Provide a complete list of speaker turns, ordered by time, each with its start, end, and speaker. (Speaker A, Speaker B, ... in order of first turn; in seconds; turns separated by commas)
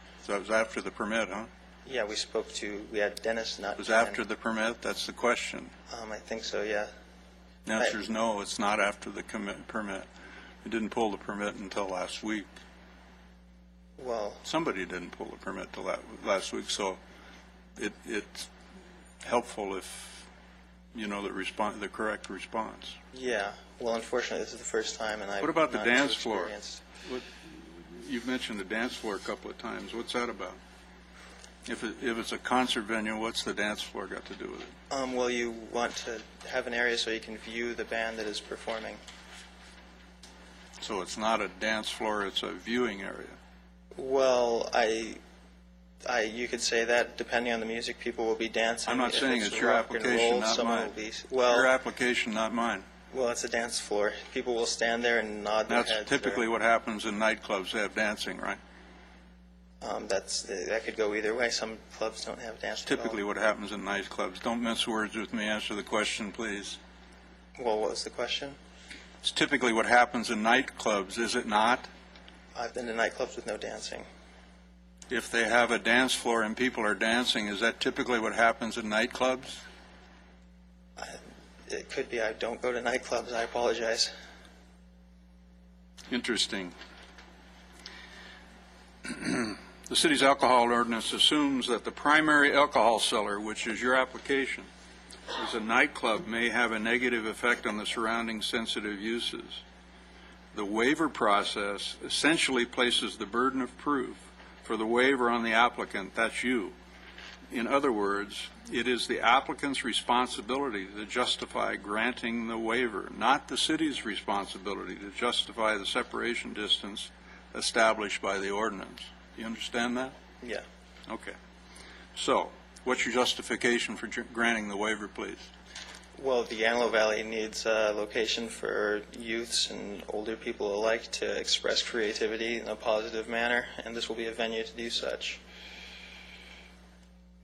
Speaker A: 0.2-1.5, Speaker B: 1.8-4.2, Speaker A: 3.8-5.7, Speaker B: 5.9-6.9, Speaker A: 7.7-10.1, Speaker A: 10.6-12.5, Speaker B: 14.0-14.4, Speaker A: 14.4-17.0, Speaker A: 17.8-18.5, Speaker A: 19.2-20.2, Speaker A: 20.9-23.0, Speaker B: 23.1-26.8, Speaker A: 25.4-30.6, Speaker A: 31.7-34.7, Speaker B: 34.9-39.0, Speaker A: 40.8-43.4, Speaker B: 44.0-45.2, Speaker B: 46.0-51.7, Speaker A: 48.9-52.9, Speaker B: 53.1-56.4, Speaker A: 55.7-58.6, Speaker B: 59.8-63.2, Speaker A: 62.9-66.8, Speaker B: 67.6-68.6, Speaker A: 69.2-71.9, Speaker B: 72.5-74.0, Speaker A: 75.1-79.6, Speaker B: 81.0-84.1, Speaker A: 86.1-86.7, Speaker A: 89.0-94.7, Speaker A: 95.3-99.6, Speaker A: 100.5-106.7, Speaker A: 107.5-120.1, Speaker A: 121.1-121.3, Speaker A: 122.1-125.5, Speaker B: 126.2-135.4